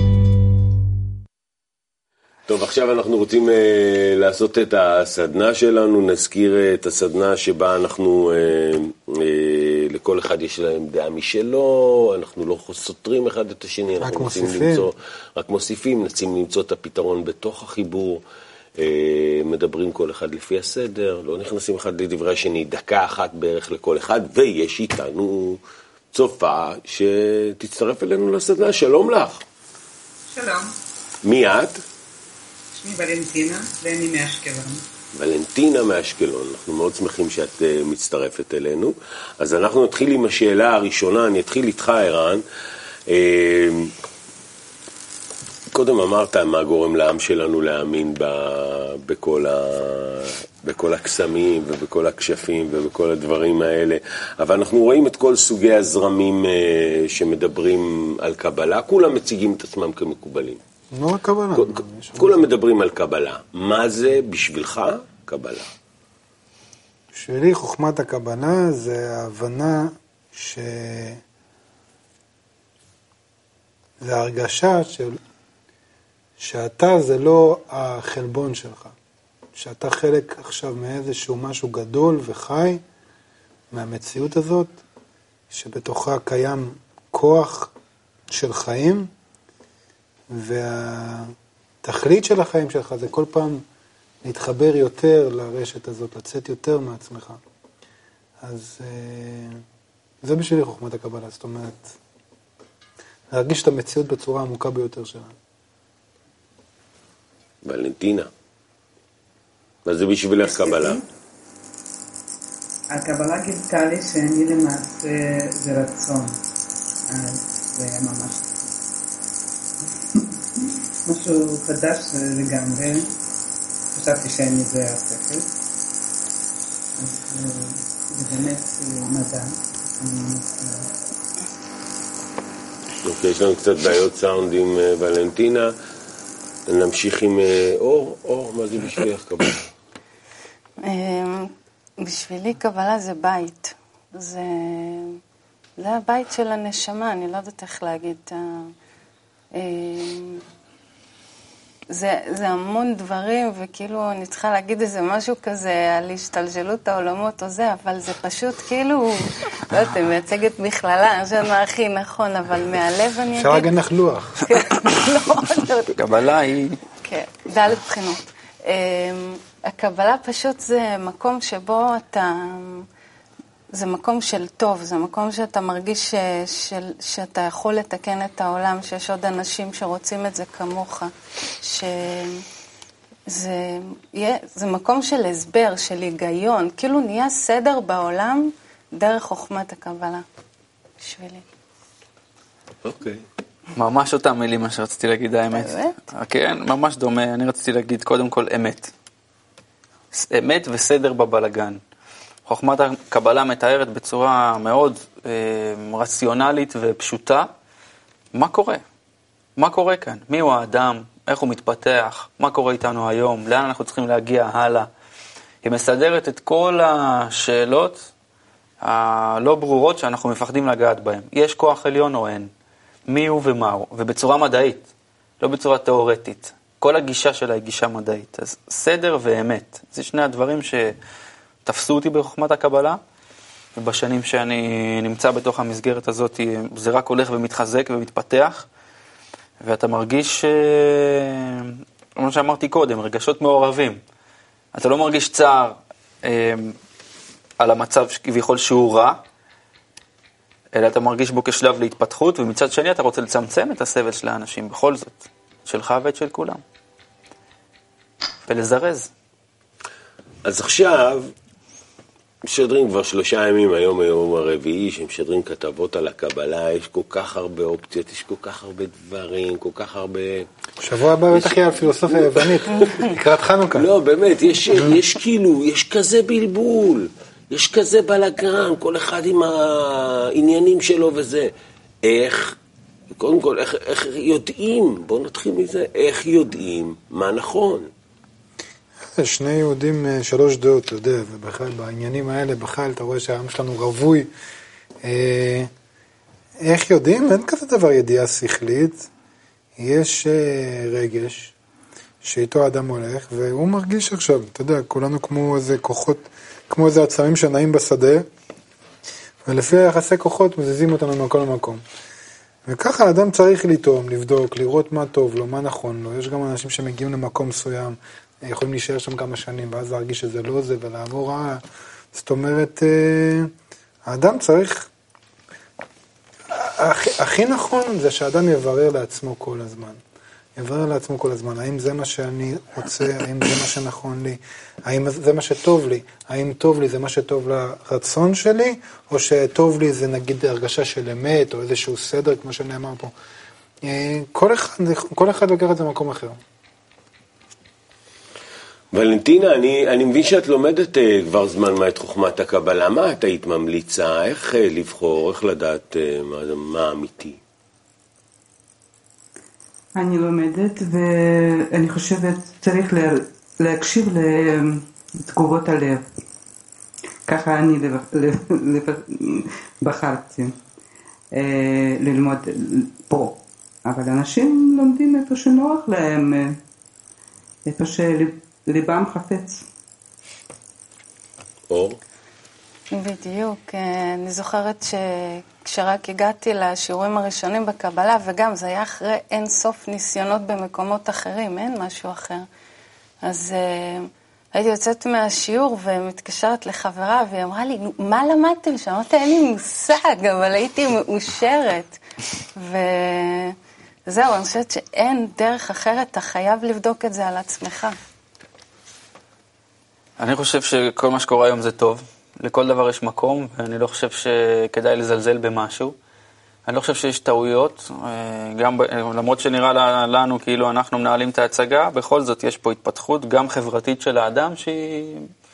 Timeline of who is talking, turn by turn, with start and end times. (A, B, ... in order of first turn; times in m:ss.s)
0:02.5-0:18.2 A
0:14.0-0:14.9 B
0:18.8-0:25.6 A
0:26.1-0:29.4 A
0:30.3-0:30.7 C
0:31.2-0:31.8 A
0:32.7-0:34.8 C
0:35.1-0:42.4 A
0:43.1-0:43.9 A
0:45.7-1:00.6 A
1:00.9-1:02.5 B
1:01.6-1:05.7 A
1:07.1-1:11.2 B
1:14.0-1:15.2 B
1:16.4-1:18.9 B
1:19.6-1:22.8 B
1:23.7-1:24.8 B
1:25.5-1:27.7 B
1:28.3-1:29.1 B
1:30.3-1:31.3 B
1:31.8-1:33.6 B
1:34.2-1:37.4 B
1:38.4-1:39.6 B
1:40.2-1:41.9 B
1:43.3-1:45.4 B
1:47.6-1:48.3 A
1:49.9-1:51.0 A
1:52.9-1:56.4 C
1:57.1-1:58.5 C
2:00.1-2:03.1 C
2:03.9-2:05.5 C
2:07.0-2:10.9 C
2:13.0-2:15.7 A
2:16.7-2:19.7 A
2:20.8-2:25.2 D
2:25.8-2:28.7 D
2:29.6-2:30.4 D
2:31.9-2:43.7 D
2:43.3-2:44.4 B
2:44.4-2:46.0 D
2:45.9-2:46.8 E
2:47.0-2:52.8 D
2:53.7-3:02.4 D
3:03.3-3:10.2 D
3:11.0-3:11.4 D
3:12.8-3:13.2 A
3:13.8-3:18.9 E
3:15.5-3:16.0 D
3:20.1-3:21.8 E
3:22.5-3:27.5 E
3:28.4-3:28.8 E
3:29.6-3:34.9 E
3:35.6-3:38.0 E
3:38.8-3:42.5 E
3:43.1-3:44.9 E
3:45.4-3:51.0 E
3:51.6-3:53.0 E
3:53.8-3:58.7 E
3:59.6-4:04.0 E
4:04.7-4:06.8 E
4:07.6-4:09.2 E
4:10.8-4:16.6 E
4:18.5-4:19.1 E
4:20.4-4:21.3 A
4:22.4-4:30.5 A
4:30.8-4:33.9 B
4:31.3-4:33.2 A
4:33.7-4:41.5 A
4:42.0-4:42.6 A
4:43.2-4:47.9 A
4:49.2-4:54.3 B
4:55.0-4:55.7 B
4:56.6-4:59.1 B
4:59.8-5:01.5 B
5:02.2-5:08.3 B
5:09.4-5:11.8 B
5:12.7-5:21.6 B
5:22.1-5:23.5 B
5:24.1-5:24.9 B
5:26.5-5:30.0 B
5:30.6-5:43.1 B
5:43.8-5:46.4 B
5:48.9-5:57.4 A
6:00.0-6:04.6 C
6:05.2-6:06.0 C
6:07.3-6:09.0 C
6:09.8-6:10.6 C
6:11.4-6:12.4 C
6:13.0-6:16.6 C
6:17.7-6:19.6 C
6:21.7-6:22.0 A
6:22.9-6:32.5 D
6:33.2-6:42.0 D
6:42.6-6:43.6 D
6:44.1-6:48.0 D
6:50.2-6:56.0 E
6:56.7-7:05.3 E